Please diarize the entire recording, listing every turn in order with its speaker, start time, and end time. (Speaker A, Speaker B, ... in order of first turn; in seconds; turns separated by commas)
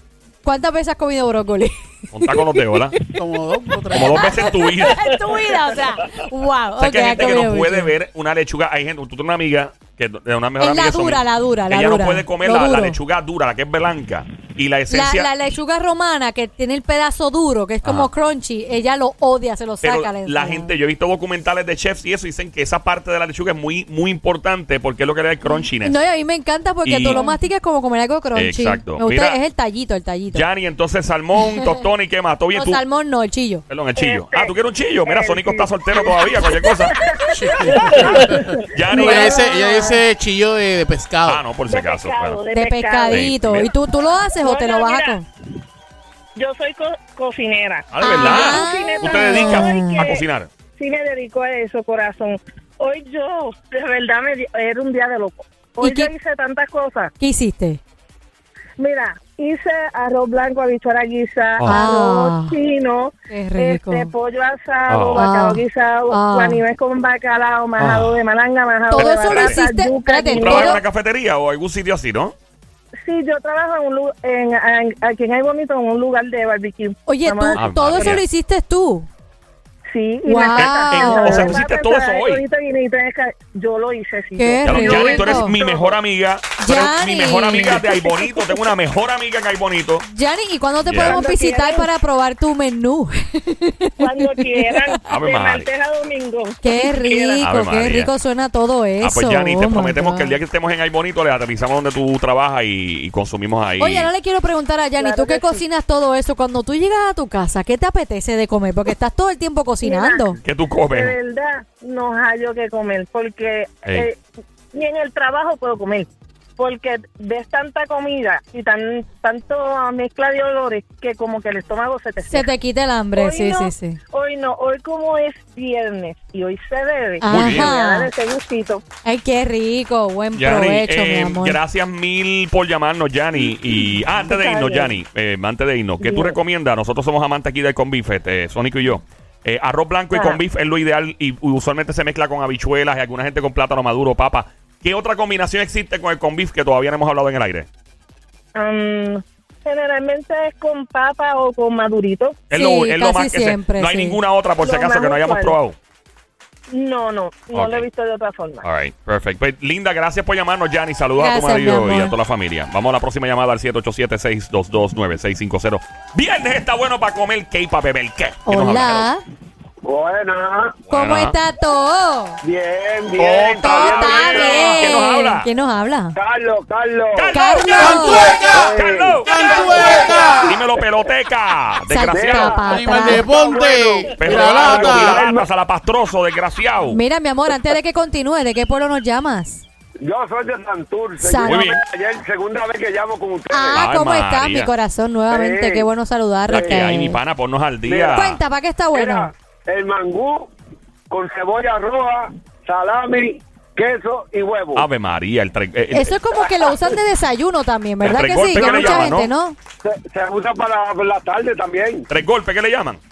Speaker A: 0.4-3.1, Speaker B: 2.1-3.0, Speaker C: 3.1-4.5, Speaker A: 3.9-7.9, Speaker B: 3.9-5.1, Speaker B: 6.8-15.3, Speaker A: 10.6-13.0, Speaker A: 14.9-20.7, Speaker B: 17.8-18.1, Speaker B: 19.8-26.0, Speaker A: 25.5-30.4, Speaker B: 26.8-27.2, Speaker D: 27.1-27.4, Speaker B: 28.3-29.4, Speaker B: 30.3-32.8, Speaker A: 32.5-33.6, Speaker B: 33.7-37.0, Speaker D: 34.0-40.0, Speaker C: 37.3-41.4, Speaker B: 37.9-39.4, Speaker B: 41.2-42.4, Speaker D: 41.7-43.3, Speaker A: 42.5-45.2, Speaker B: 43.1-43.7, Speaker D: 44.4-45.2, Speaker D: 46.4-50.2, Speaker B: 47.9-50.5, Speaker A: 48.0-50.0, Speaker D: 50.8-57.1, Speaker A: 55.8-56.1, Speaker A: 57.2-57.8, Speaker D: 58.8-70.8, Speaker A: 61.6-62.6, Speaker A: 63.3-64.1, Speaker B: 64.9-65.2, Speaker A: 65.2-66.6, Speaker B: 67.8-68.2, Speaker A: 68.9-70.8, Speaker B: 69.0-69.6, Speaker B: 70.3-72.3, Speaker D: 73.0-78.2, Speaker A: 77.1-79.1, Speaker B: 77.6-78.2, Speaker D: 79.9-85.9, Speaker A: 80.2-81.6, Speaker B: 80.5-82.4, Speaker A: 84.4-85.5, Speaker B: 84.6-90.0, Speaker A: 86.6-87.9, Speaker A: 90.0-94.9, Speaker B: 90.9-91.2, Speaker D: 91.0-91.9, Speaker D: 94.0-97.4, Speaker B: 95.1-95.7, Speaker A: 96.6-100.4, Speaker B: 97.4-98.1, Speaker B: 99.0-104.1, Speaker A: 103.8-110.4, Speaker D: 105.0-105.6, Speaker D: 109.8-114.2, Speaker B: 110.4-111.1, Speaker D: 114.7-122.5, Speaker A: 122.2-124.0, Speaker D: 123.2-128.8, Speaker A: 127.2-128.1, Speaker B: 127.3-127.7, Speaker A: 129.0-131.6, Speaker B: 130.3-147.7, Speaker D: 134.2-134.9, Speaker D: 136.0-136.3, Speaker D: 140.1-140.4, Speaker D: 148.5-152.4, Speaker B: 152.5-155.8, Speaker A: 152.5-154.2, Speaker D: 154.6-155.6, Speaker D: 156.7-158.6, Speaker B: 157.5-157.8, Speaker B: 158.6-169.1, Speaker A: 161.2-162.1, Speaker A: 168.4-169.2, Speaker E: 169.8-170.8, Speaker B: 170.9-171.3, Speaker A: 170.9-172.4, Speaker E: 172.4-174.9, Speaker B: 173.2-175.5, Speaker A: 173.6-176.2, Speaker E: 176.2-177.3, Speaker B: 177.1-179.3, Speaker A: 177.3-178.3, Speaker C: 177.7-180.6, Speaker E: 178.0-180.5, Speaker B: 180.4-182.6, Speaker A: 181.9-183.2, Speaker E: 182.1-185.4, Speaker C: 182.7-185.2, Speaker B: 184.2-187.0, Speaker A: 186.9-189.6, Speaker E: 190.0-193.8, Speaker A: 191.2-191.7, Speaker B: 191.4-191.8, Speaker A: 193.5-197.2, Speaker B: 193.7-194.7, Speaker E: 195.3-195.9, Speaker B: 196.5-198.4, Speaker E: 196.5-196.8, Speaker E: 197.9-198.3, Speaker A: 198.1-199.3, Speaker E: 198.9-200.5, Speaker E: 201.1-204.9, Speaker B: 204.7-206.1, Speaker A: 205.9-209.6, Speaker B: 208.0-209.3, Speaker E: 209.8-212.1, Speaker B: 212.1-213.0